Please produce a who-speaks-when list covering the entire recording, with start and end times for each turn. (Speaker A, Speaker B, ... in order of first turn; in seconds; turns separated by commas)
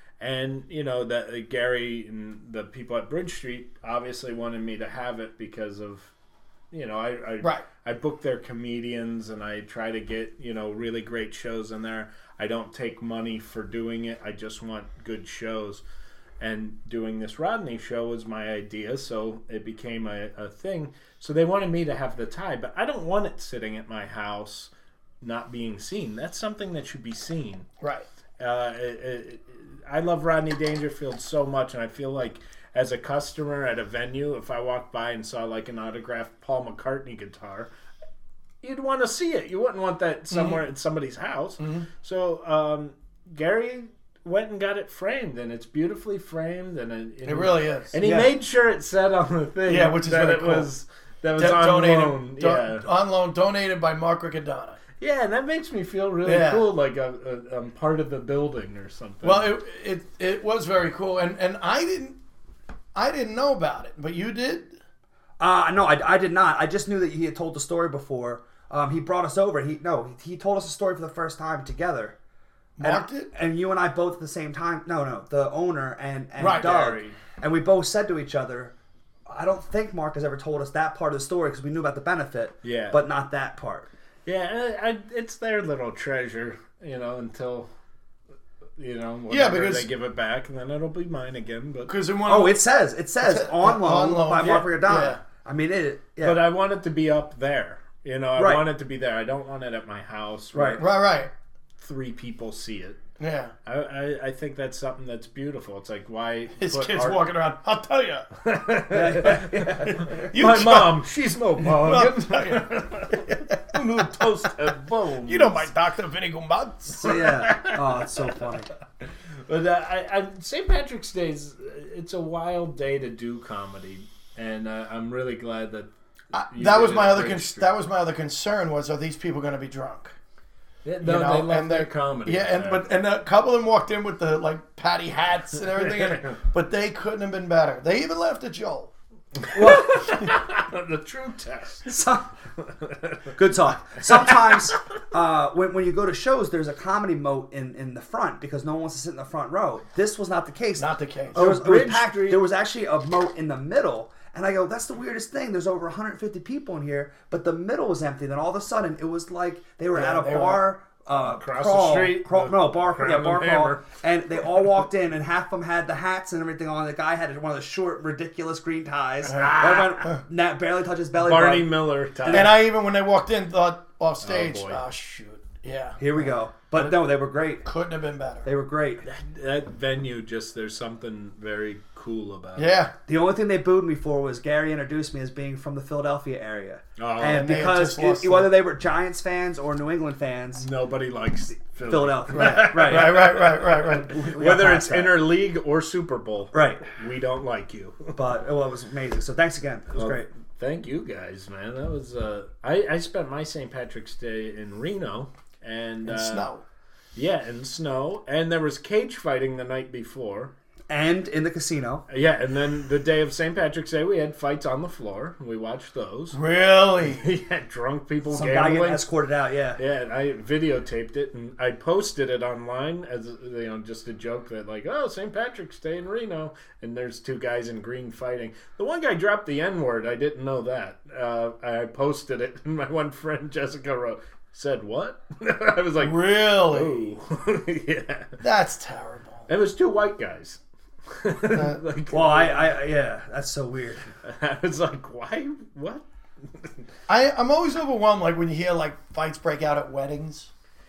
Speaker A: 0.2-6.1, Speaker A: 6.7-15.8, Speaker B: 7.4-7.7, Speaker A: 16.4-24.7, Speaker A: 25.2-27.7, Speaker B: 27.8-28.1, Speaker A: 28.4-37.7, Speaker A: 38.6-52.9, Speaker B: 40.3-40.6, Speaker B: 41.6-41.9, Speaker B: 47.2-47.9, Speaker C: 48.0-48.3, Speaker B: 49.6-50.7, Speaker B: 51.4-54.8, Speaker A: 55.0-59.5, Speaker B: 56.2-56.7, Speaker B: 59.2-62.2, Speaker B: 62.9-64.8, Speaker C: 65.4-72.2, Speaker B: 72.8-73.3, Speaker C: 72.8-78.7, Speaker A: 76.4-77.2, Speaker C: 79.3-83.9, Speaker A: 82.6-83.0, Speaker A: 84.2-87.7, Speaker A: 88.8-91.9, Speaker B: 89.3-89.9, Speaker B: 91.9-92.6, Speaker C: 92.3-96.4, Speaker B: 93.2-95.2, Speaker A: 96.2-101.0, Speaker C: 98.3-98.7, Speaker C: 100.5-100.8, Speaker B: 100.8-101.3, Speaker A: 101.8-103.0, Speaker B: 103.2-103.5, Speaker A: 103.7-107.3, Speaker B: 106.6-108.3, Speaker A: 108.4-115.7, Speaker C: 108.9-110.3, Speaker B: 110.0-111.0, Speaker B: 111.6-114.5, Speaker B: 115.2-117.3, Speaker C: 117.0-118.7, Speaker A: 117.0-118.0, Speaker A: 119.5-125.9, Speaker B: 126.3-130.1, Speaker A: 126.5-127.7, Speaker A: 130.8-132.8, Speaker B: 131.0-138.9, Speaker A: 136.0-136.2, Speaker A: 139.4-142.0, Speaker C: 139.5-140.1, Speaker C: 141.8-142.3, Speaker A: 142.7-143.3, Speaker C: 143.3-172.5, Speaker B: 150.8-151.4, Speaker A: 151.3-152.4, Speaker B: 159.9-160.7, Speaker A: 161.2-163.8, Speaker A: 169.2-170.1, Speaker A: 171.2-172.6, Speaker B: 172.3-176.9, Speaker A: 174.2-174.8, Speaker C: 176.0-177.7, Speaker B: 177.6-178.5, Speaker C: 178.4-179.0, Speaker A: 179.0-182.8, Speaker B: 182.6-182.9, Speaker C: 183.1-190.7, Speaker A: 187.0-187.7, Speaker B: 187.2-188.5, Speaker A: 190.6-198.2, Speaker C: 191.8-193.2, Speaker B: 192.3-194.1, Speaker C: 194.1-195.2, Speaker C: 196.5-196.8, Speaker C: 198.1-200.3, Speaker A: 199.9-206.5, Speaker B: 206.0-206.6, Speaker A: 207.2-210.5, Speaker C: 210.9-212.0, Speaker A: 212.1-216.4, Speaker B: 216.3-217.3, Speaker A: 217.0-219.1, Speaker C: 218.3-219.8, Speaker A: 219.8-238.4, Speaker B: 236.0-237.0, Speaker B: 238.4-239.5, Speaker A: 239.5-242.7, Speaker B: 241.5-241.8, Speaker C: 242.1-244.1, Speaker A: 244.2-246.8, Speaker B: 247.1-250.5